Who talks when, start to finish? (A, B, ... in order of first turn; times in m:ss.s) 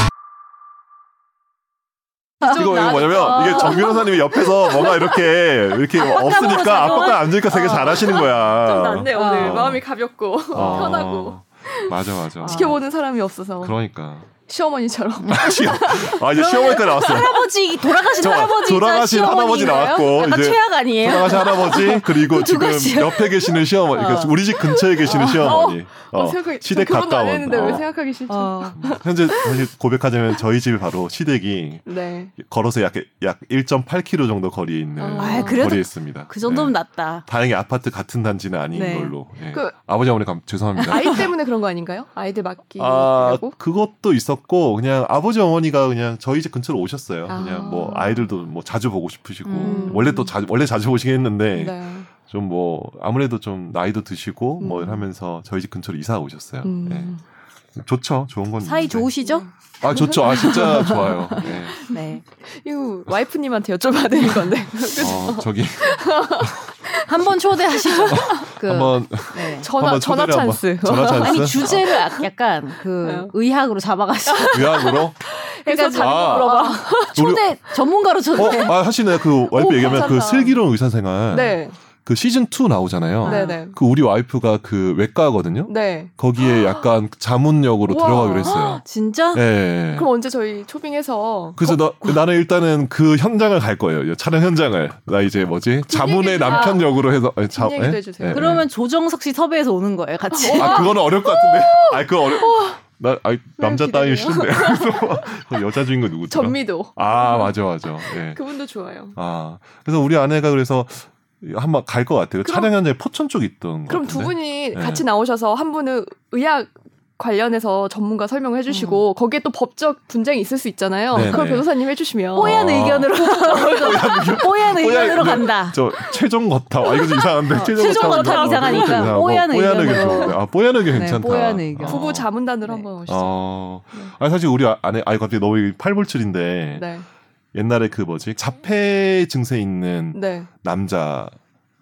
0:02.4-0:09.8 A
0:02.4-0:03.7 B
0:02.4-0:03.9 C
0:06.0-0:07.7 B
0:06.4-0:13.8 C
0:09.1-0:09.7 B
0:10.5-0:12.8 A
0:10.6-0:10.9 B
0:12.4-0:12.7 B
0:13.6-0:14.3 A
0:14.4-0:17.3 C
0:15.2-0:24.5 B
0:15.3-0:27.9 A
0:25.0-0:29.6 C
0:25.0-0:25.5 B
0:28.3-0:28.9 B
0:28.8-0:41.3 A
0:31.8-0:32.3 C
0:35.0-0:35.8 C
0:35.2-0:37.2 B
0:38.7-0:39.1 B
0:40.9-0:43.6 C
0:42.8-0:57.1 A
0:47.3-0:48.3 C
0:49.4-0:50.0 B
0:49.6-0:50.3 C
0:51.5-0:52.1 C
0:54.6-0:55.0 C
0:56.6-0:57.2 C
0:57.7-0:59.1 A
0:58.6-0:59.5 B
0:59.2-1:07.1 C
0:59.8-1:01.8 A
1:00.2-1:02.2 B
1:05.0-1:06.6 A
1:06.9-1:09.7 B
1:07.7-1:08.5 C
1:08.1-1:11.9 A
1:09.6-1:12.2 C
1:11.2-1:15.0 B
1:13.0-1:13.3 C
1:14.3-1:17.2 C
1:14.5-1:15.2 A
1:15.6-1:18.8 B
1:15.9-1:16.6 A
1:17.1-1:17.5 A
1:18.3-1:30.1 A
1:19.3-1:20.6 C
1:21.3-1:21.8 C
1:23.2-1:23.6 B
1:23.2-1:23.8 C
1:25.6-1:26.6 C
1:27.9-1:28.6 C
1:28.4-1:29.4 B
1:29.9-1:31.7 C
1:31.6-1:38.7 A
1:35.9-1:38.5 C
1:38.3-1:41.0 B
1:40.3-1:42.8 C
1:40.5-1:48.4 A
1:43.6-1:45.4 C
1:46.3-1:49.2 C
1:49.1-1:55.0 A
1:52.4-1:52.7 C
1:53.9-2:02.6 C
1:58.7-1:59.0 B
2:01.1-2:01.7 A
2:02.3-2:05.8 B
2:02.4-2:12.3 A
2:03.4-2:04.1 C
2:07.0-2:09.2 C
2:07.5-2:10.4 B
2:09.8-2:10.3 C
2:10.9-2:12.1 B
2:10.9-2:11.2 C
2:11.8-2:14.1 C
2:13.1-2:16.9 A
2:16.7-2:17.1 C
2:17.5-2:21.4 A
2:20.1-2:20.5 C